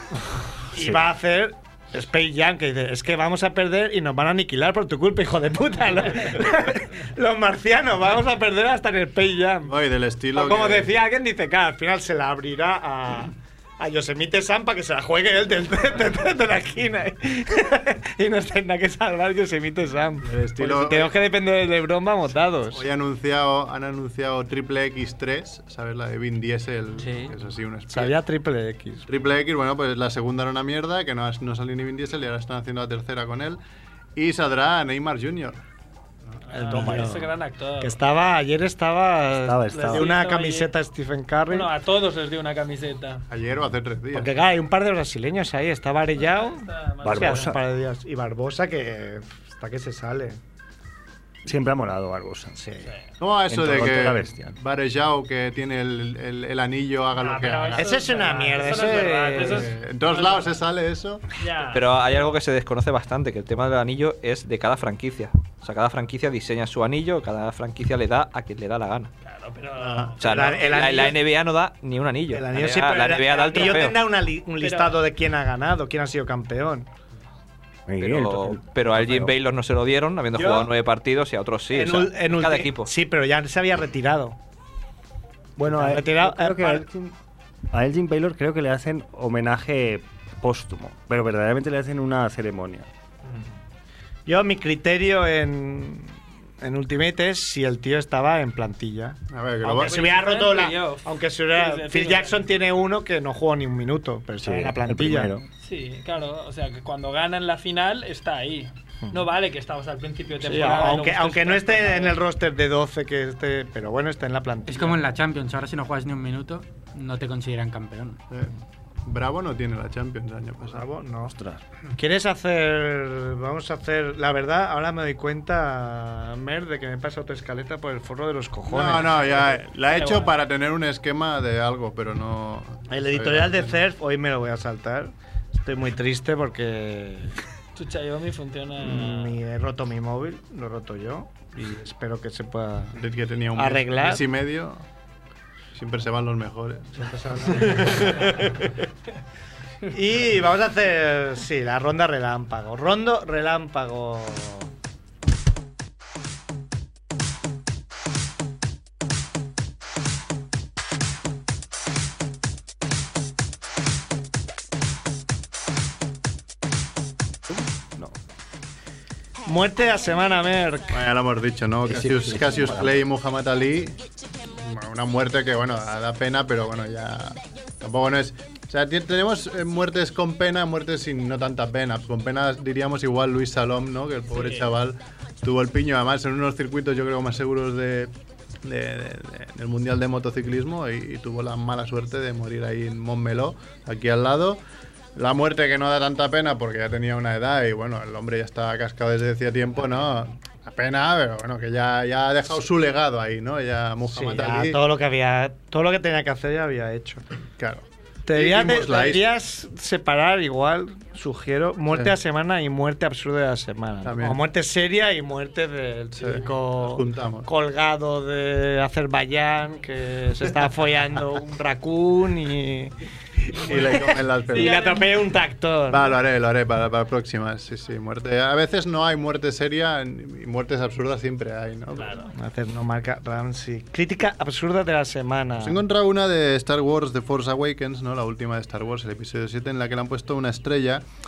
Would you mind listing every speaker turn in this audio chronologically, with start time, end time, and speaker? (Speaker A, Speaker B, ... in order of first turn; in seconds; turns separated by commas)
Speaker A: 0.7-9.7, Speaker B: 0.8-1.0, Speaker C: 9.7-10.9, Speaker A: 10.3-22.8, Speaker C: 20.3-21.2, Speaker C: 22.7-28.1, Speaker A: 27.9-29.1, Speaker C: 29.1-33.6, Speaker C: 34.2-35.6, Speaker D: 36.5-38.0, Speaker A: 36.5-41.7, Speaker B: 39.5-40.1, Speaker D: 39.7-40.8, Speaker D: 41.5-43.2, Speaker C: 43.3-44.3, Speaker A: 44.1-50.4, Speaker D: 46.1-47.6, Speaker B: 47.0-47.6, Speaker B: 51.5-52.6, Speaker A: 52.5-52.9, Speaker C: 53.2-58.1, Speaker B: 53.5-54.6, Speaker D: 57.2-60.5, Speaker A: 57.8-59.7, Speaker C: 59.4-61.4, Speaker D: 61.3-62.4, Speaker E: 61.7-69.1, Speaker D: 69.2-70.5, Speaker C: 69.8-70.1, Speaker E: 70.2-74.0, Speaker A: 70.2-71.2, Speaker A: 72.3-76.9, Speaker D: 73.5-74.0, Speaker D: 74.6-75.0, Speaker B: 77.9-79.3, Speaker E: 78.0-82.9, Speaker A: 80.3-80.7, Speaker A: 81.7-84.4, Speaker B: 85.6-87.2, Speaker A: 85.6-86.8, Speaker B: 87.7-92.9, Speaker A: 94.3-99.2, Speaker C: 99.3-100.1, Speaker D: 99.6-102.5, Speaker A: 99.8-105.3, Speaker B: 104.4-105.5, Speaker D: 105.6-112.2, Speaker A: 110.4-115.0, Speaker F: 114.7-118.2, Speaker C: 119.0-120.8, Speaker A: 120.7-121.3, Speaker B: 121.3-121.6, Speaker A: 122.0-129.6, Speaker C: 128.7-133.8, Speaker D: 129.9-130.3, Speaker A: 132.9-137.4, Speaker D: 137.8-139.4, Speaker A: 138.8-143.0, Speaker C: 142.9-144.8, Speaker A: 143.6-144.2, Speaker C: 145.7-148.6, Speaker A: 146.9-148.5, Speaker A: 149.9-154.7, Speaker B: 167.5-168.2, Speaker A: 169.4-171.0, Speaker C: 170.9-174.0, Speaker B: 171.9-173.1, Speaker C: 174.5-188.1, Speaker D: 184.3-184.7, Speaker C: 188.6-194.6, Speaker C: 195.2-204.8, Speaker A: 204.1-207.2, Speaker C: 207.6-209.2, Speaker A: 208.3-222.9, Speaker C: 214.0-214.4, Speaker C: 216.2-217.5, Speaker C: 223.6-224.8, Speaker A: 223.6-226.0, Speaker D: 223.6-225.2, Speaker C: 225.9-232.2, Speaker D: 231.9-232.3, Speaker A: 232.3-235.8, Speaker C: 235.6-241.1